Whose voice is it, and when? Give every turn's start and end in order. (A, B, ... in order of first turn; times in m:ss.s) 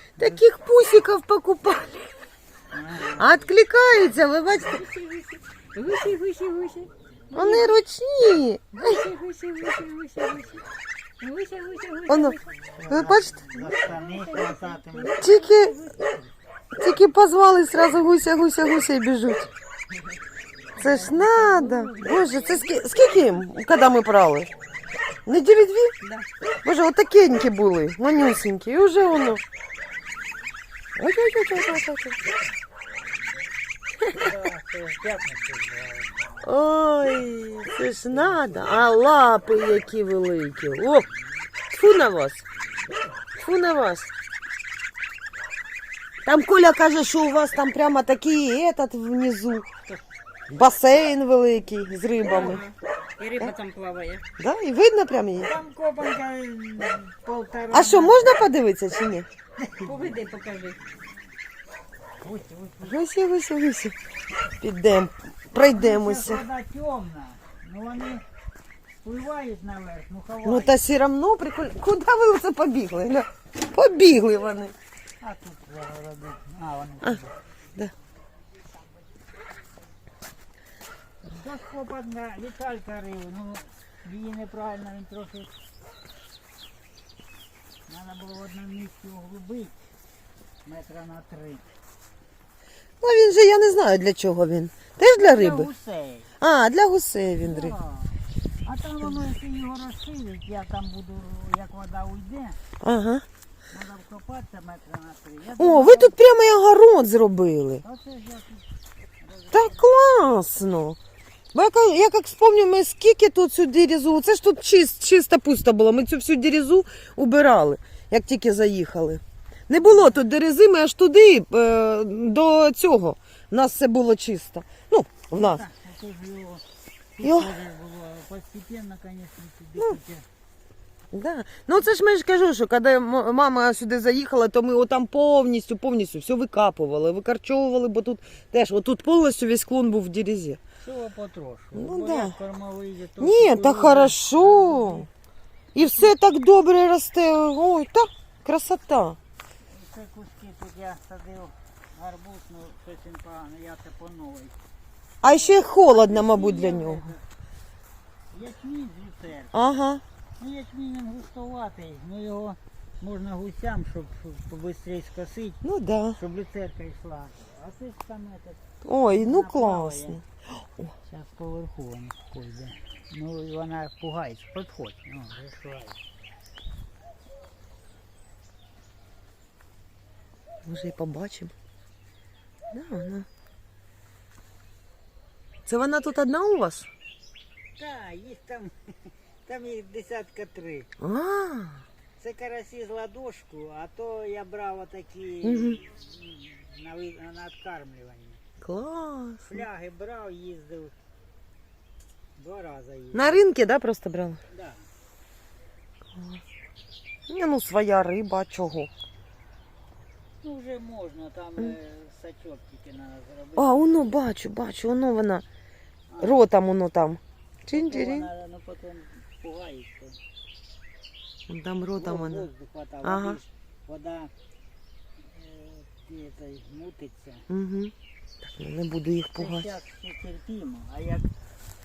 0:00.2-0:02.0 A
0:02.7-0:03.4 B
0:03.2-0:04.8 A
0:04.5-0:07.7 C
0:07.3-0:09.0 A
0:08.8-0:10.6 C
0:11.2-0:12.6 C
0:12.1-0:12.4 A
0:12.8-0:15.2 B
0:12.9-0:13.4 A
0:13.5-0:16.2 C
0:15.2-0:15.7 A
0:16.7-0:19.5 A
0:20.8-0:22.7 C
0:20.8-0:24.5 A
0:25.2-0:25.9 A
0:26.0-0:26.3 C
0:26.6-0:29.4 A
0:31.0-0:32.2 A
0:34.0-0:34.3 A
0:34.1-0:36.1 B
0:36.4-0:41.1 A
0:38.1-0:38.8 B
0:41.7-0:42.4 A
0:43.4-0:44.1 A
0:46.2-0:49.7 A
0:50.5-0:52.6 A
0:52.2-0:54.2 C
0:54.4-0:55.5 A
0:55.4-0:58.3 B
0:57.7-0:59.3 A
0:59.6-1:00.1 B
0:59.8-1:00.8 C
1:02.2-1:03.0 B
1:02.8-1:03.9 A
1:04.6-1:06.4 A
1:05.5-1:08.2 B
1:09.0-1:10.8 B
1:10.4-1:14.7 A
1:15.2-1:17.3 B
1:21.2-1:25.5 B
1:27.9-1:29.8 B
1:30.6-1:31.6 B
1:33.0-1:35.7 A
1:35.1-1:36.3 B
1:36.4-1:37.7 A
1:37.4-1:42.6 B
1:42.8-1:43.2 A
1:43.7-1:46.2 B
1:45.6-1:47.8 A
1:47.8-1:48.7 B
1:49.2-1:49.8 B
1:49.5-1:51.0 A
1:51.5-2:05.6 A
2:05.3-2:06.6 B
2:07.1-2:10.2 B
2:07.2-2:07.5 A
2:11.1-2:20.6 A
2:20.8-2:25.1 B
2:21.7-2:22.3 A
2:23.2-2:25.1 A
2:25.7-2:29.2 A
2:29.7-2:34.6 B
2:35.2-2:37.1 A
2:35.3-2:37.2 B
2:38.3-2:39.5 B
2:39.5-2:40.0 A
2:40.4-2:45.6 B
2:45.6-2:46.2 A
2:46.2-2:48.6 B
2:48.8-2:50.2 A
2:49.1-2:50.2 B
2:51.0-2:56.0 B
3:00.6-3:01.5 A
3:02.7-3:03.3 A
3:05.6-3:06.9 A
3:07.8-3:10.9 B
3:11.0-3:11.8 A
3:12.2-3:18.4 B
3:15.4-3:15.8 A
3:18.6-3:19.6 A
3:19.4-3:20.9 B
3:22.4-3:23.4 B
3:23.1-3:24.4 A
3:24.5-3:24.8 B
3:27.3-3:28.9 A
3:30.4-3:34.0 B
3:33.6-3:35.4 A
3:36.1-3:36.4 B
3:36.2-3:38.3 A
3:37.7-3:40.2 B
3:41.5-3:42.5 A
3:42.0-3:44.3 B
3:43.0-3:43.4 A
3:45.2-3:47.5 B
3:47.5-3:47.9 A
3:48.4-3:49.8 A
3:49.4-3:51.3 B